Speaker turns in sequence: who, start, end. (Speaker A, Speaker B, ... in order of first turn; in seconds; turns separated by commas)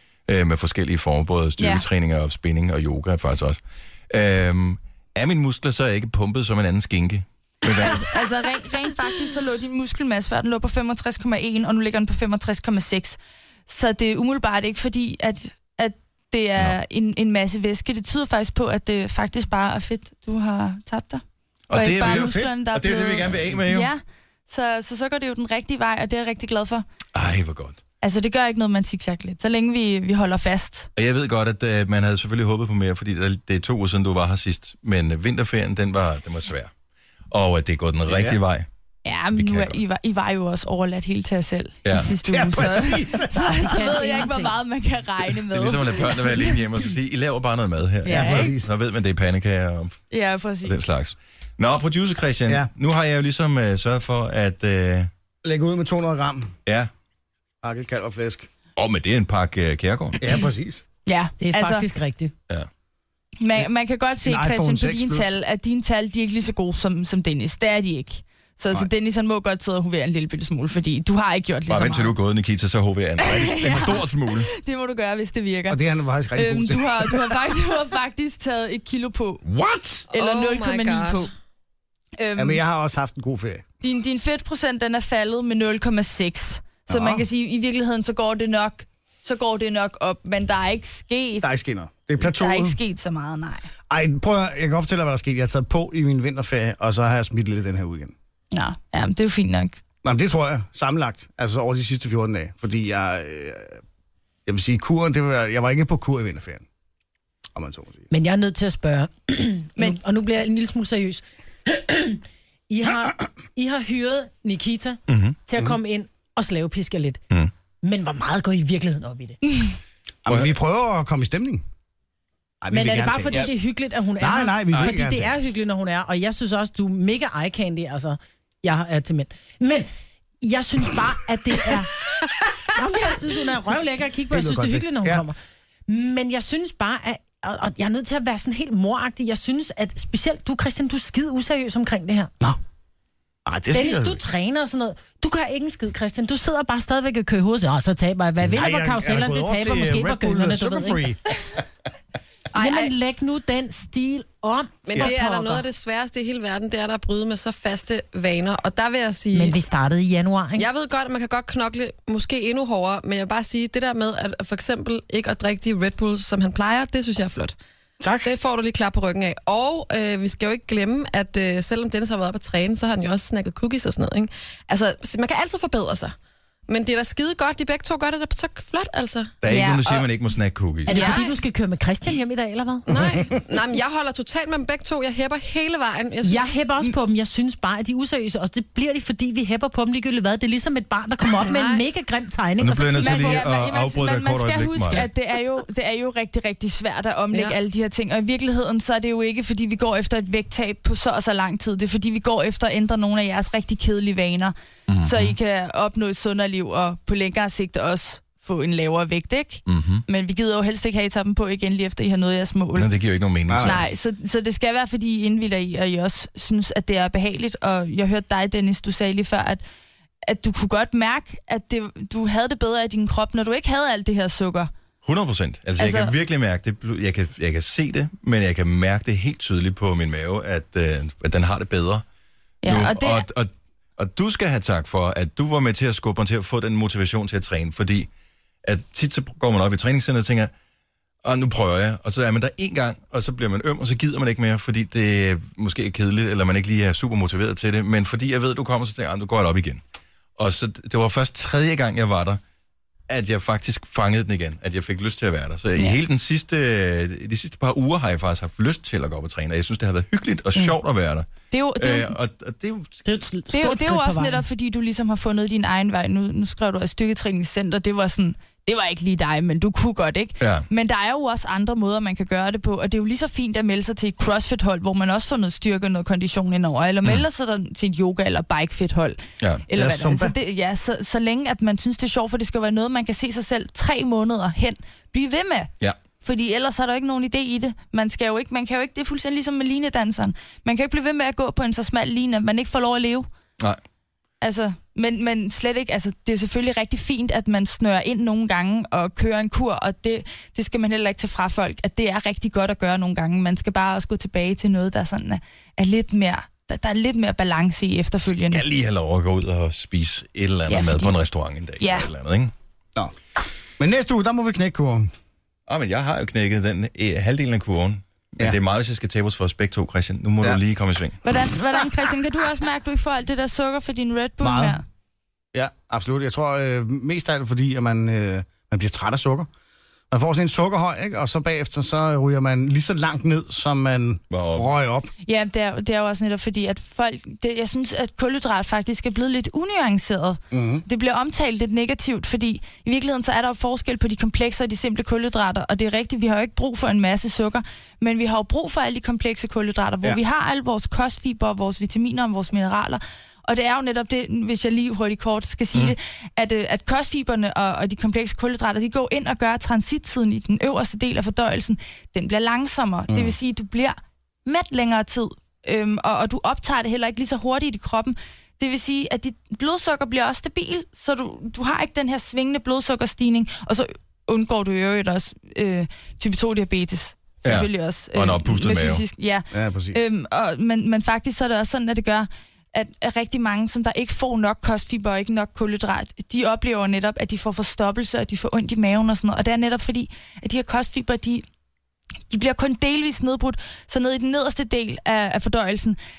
Speaker A: 0.3-8.1, Speaker B: 1.6-1.9, Speaker B: 7.7-26.8, Speaker A: 21.7-23.9, Speaker C: 22.0-22.6, Speaker A: 27.1-27.8, Speaker B: 28.0-30.9, Speaker A: 30.9-36.7, Speaker A: 37.3-38.7, Speaker C: 38.1-38.4, Speaker B: 39.0-46.6, Speaker A: 39.3-39.8, Speaker A: 41.8-42.2, Speaker C: 42.2-44.2, Speaker D: 43.7-44.4, Speaker A: 45.5-50.0, Speaker B: 48.0-48.5, Speaker C: 48.0-48.7, Speaker B: 50.1-50.8, Speaker A: 50.6-55.1, Speaker C: 55.4-56.5, Speaker C: 57.6-58.5, Speaker A: 58.8-60.2, Speaker C: 60.2-60.8, Speaker B: 61.0-61.9, Speaker D: 61.4-62.3, Speaker B: 63.4-72.1, Speaker C: 64.2-65.3, Speaker A: 71.7-74.5, Speaker B: 73.2-79.4, Speaker C: 75.7-77.4, Speaker A: 79.4-80.1, Speaker E: 80.1-81.3, Speaker B: 80.1-81.3, Speaker B: 82.2-82.6, Speaker C: 82.3-83.7, Speaker B: 83.8-91.5, Speaker C: 86.9-87.2, Speaker C: 91.4-92.8, Speaker B: 92.2-93.7, Speaker C: 93.9-98.1, Speaker B: 98.5-99.8, Speaker C: 100.0-103.8, Speaker C: 104.5-106.6, Speaker C: 107.5-108.1, Speaker D: 108.1-117.2, Speaker A: 115.1-115.4, Speaker D: 117.8-119.4, Speaker B: 119.4-119.7, Speaker C: 120.2-121.6, Speaker A: 120.3-120.5, Speaker C: 122.6-123.5, Speaker D: 122.7-129.9, Speaker C: 124.2-125.5, Speaker D: 130.4-132.0, Speaker D: 132.7-142.3, Speaker C: 134.3-135.2, Speaker C: 143.4-144.2, Speaker D: 143.7-151.1, Speaker C: 148.4-151.2, Speaker E: 152.5-152.9, Speaker D: 152.5-155.6, Speaker E: 154.9-159.6, Speaker D: 159.3-160.7, Speaker E: 160.6-167.5, Speaker C: 168.0-168.3, Speaker E: 168.2-176.1, Speaker E: 176.7-179.3, Speaker A: 179.4-181.0, Speaker B: 179.4-180.1, Speaker D: 180.9-183.2, Speaker E: 180.9-181.3, Speaker B: 180.9-181.2, Speaker E: 182.9-186.6, Speaker D: 186.2-193.4, Speaker E: 191.4-191.8, Speaker A: 192.6-195.1, Speaker B: 193.0-212.9, Speaker A: 204.9-205.4, Speaker A: 209.7-210.0, Speaker A: 212.7-213.9, Speaker C: 213.5-213.8, Speaker B: 213.6-219.6, Speaker B: 220.2-224.7, Speaker A: 225.0-232.0, Speaker B: 225.8-226.1, Speaker B: 232.6-233.2, Speaker A: 232.6-238.1, Speaker A: 238.6-240.5, Speaker A: 241.2-249.8, Speaker A: 250.4-252.4, Speaker A: 253.1-263.0, Speaker B: 261.5-262.1, Speaker D: 263.1-264.5, Speaker B: 263.5-293.3, Speaker A: 270.4-270.6, Speaker C: 279.7-280.3, Speaker B: 294.4-308.6, Speaker A: 308.5-312.5, Speaker B: 310.7-311.1, Speaker B: 311.8-312.1, Speaker C: 313.8-315.1, Speaker A: 315.7-321.2, Speaker B: 321.2-324.8, Speaker C: 324.4-324.8, Speaker C: 325.5-329.5, Speaker C: 330.1-335.1, Speaker A: 334.3-334.7, Speaker B: 335.2-391.4, Speaker C: 340.5-340.8, Speaker A: 377.4-379.0, Speaker C: 379.5-380.0, Speaker B: 392.3-396.0